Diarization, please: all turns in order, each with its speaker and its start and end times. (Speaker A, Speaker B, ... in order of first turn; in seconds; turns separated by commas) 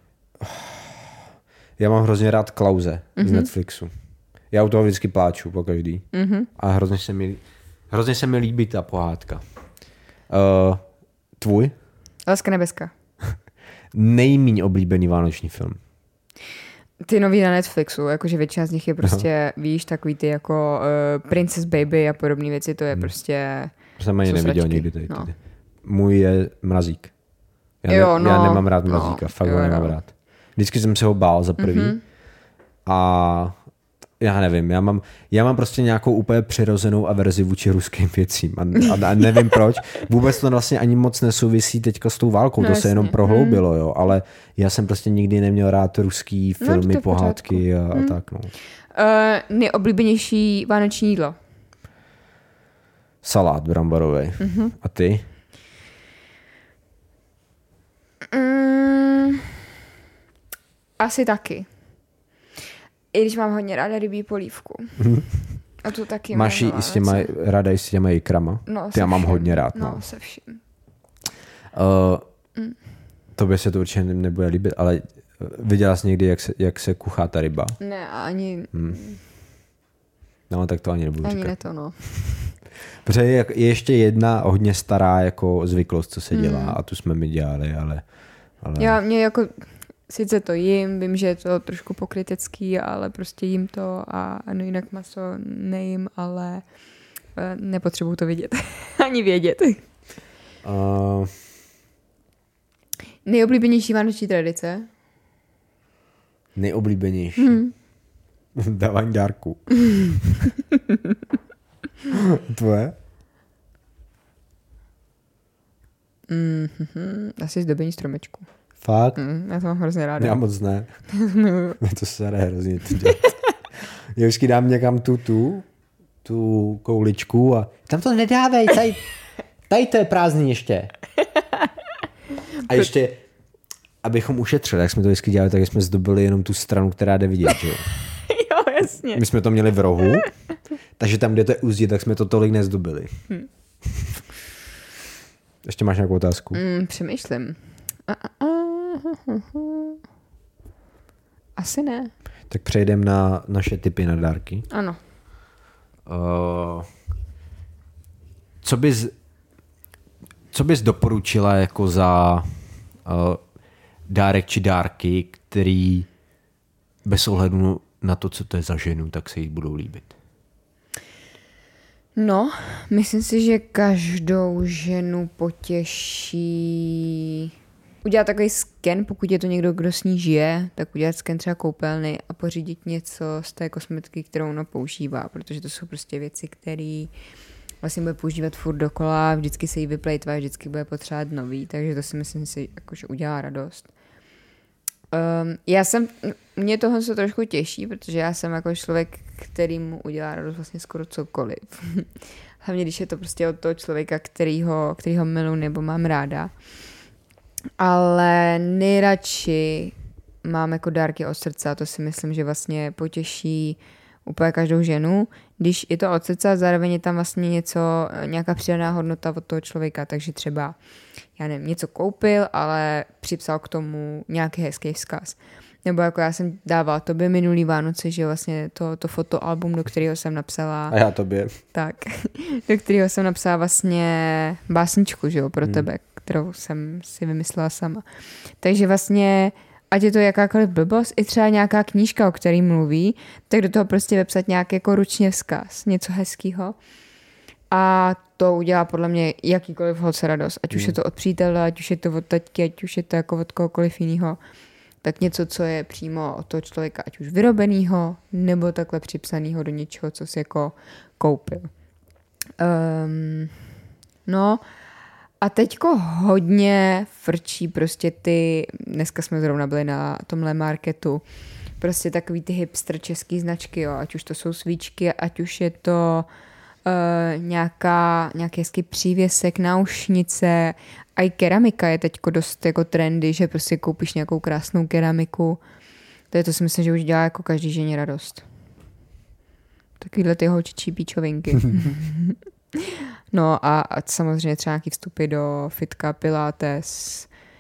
Speaker A: 0.4-1.2, Speaker A: 1.8-3.9, Speaker B: 3.2-3.5, Speaker A: 4.5-9.4, Speaker B: 6.1-6.5, Speaker A: 10.3-10.8, Speaker A: 11.4-11.7, Speaker B: 12.3-12.9, Speaker A: 13.9-15.8, Speaker B: 17.0-25.3, Speaker A: 24.0-27.1, Speaker A: 27.8-32.0, Speaker B: 27.9-30.0, Speaker B: 31.6-32.0, Speaker A: 32.9-33.6, Speaker A: 34.2-48.5, Speaker B: 42.6-43.6, Speaker B: 46.6-48.2, Speaker B: 48.9-51.4, Speaker A: 53.2-55.3, Speaker B: 54.4-54.7, Speaker B: 58.3-59.5, Speaker B: 61.0-61.7, Speaker B: 63.1-65.1, Speaker A: 65.0-65.3, Speaker B: 65.8-67.3, Speaker A: 66.3-70.0, Speaker B: 68.7-70.6, Speaker A: 71.7-72.2, Speaker A: 73.4-77.8, Speaker B: 77.8-79.2, Speaker A: 78.7-79.0, Speaker A: 80.5-82.2, Speaker B: 81.2-82.5, Speaker A: 83.0-88.0, Speaker B: 86.3-86.8, Speaker A: 88.6-89.0, Speaker B: 88.8-96.6, Speaker B: 97.3-99.8, Speaker A: 100.6-101.3, Speaker B: 103.2-104.9, Speaker A: 106.6-107.6, Speaker B: 107.4-107.7, Speaker A: 108.5-110.5, Speaker B: 110.9-111.2, Speaker A: 112.1-113.0, Speaker B: 116.3-118.5, Speaker A: 118.8-119.2, Speaker B: 119.2-120.4, Speaker A: 120.2-120.9, Speaker B: 121.1-121.8, Speaker A: 121.8-125.7, Speaker B: 123.0-123.3, Speaker A: 126.2-129.1, Speaker A: 129.7-130.9, Speaker A: 132.7-133.2, Speaker A: 134.0-137.9, Speaker B: 138.1-139.2, Speaker A: 139.1-140.3, Speaker A: 141.0-143.2, Speaker A: 143.8-144.2, Speaker A: 145.6-146.6, Speaker B: 146.5-150.0, Speaker B: 151.6-152.1, Speaker A: 152.5-154.7, Speaker B: 154.7-155.0, Speaker A: 156.1-156.9, Speaker A: 158.6-159.1, Speaker A: 160.5-163.4, Speaker A: 164.1-166.1, Speaker A: 167.1-170.1, Speaker B: 172.2-177.5, Speaker B: 178.0-187.1, Speaker B: 187.8-193.9, Speaker B: 195.1-202.1, Speaker B: 202.6-206.5, Speaker B: 207.8-220.8, Speaker B: 221.4-231.0, Speaker A: 230.9-231.6, Speaker B: 231.7-238.0, Speaker B: 238.6-246.8, Speaker B: 247.7-254.4, Speaker A: 250.7-251.0, Speaker B: 255.0-261.7, Speaker B: 262.6-263.5, Speaker B: 264.3-264.6, Speaker B: 265.4-271.2, Speaker B: 271.8-276.3, Speaker B: 276.9-285.6, Speaker B: 286.3-288.4, Speaker B: 290.0-297.3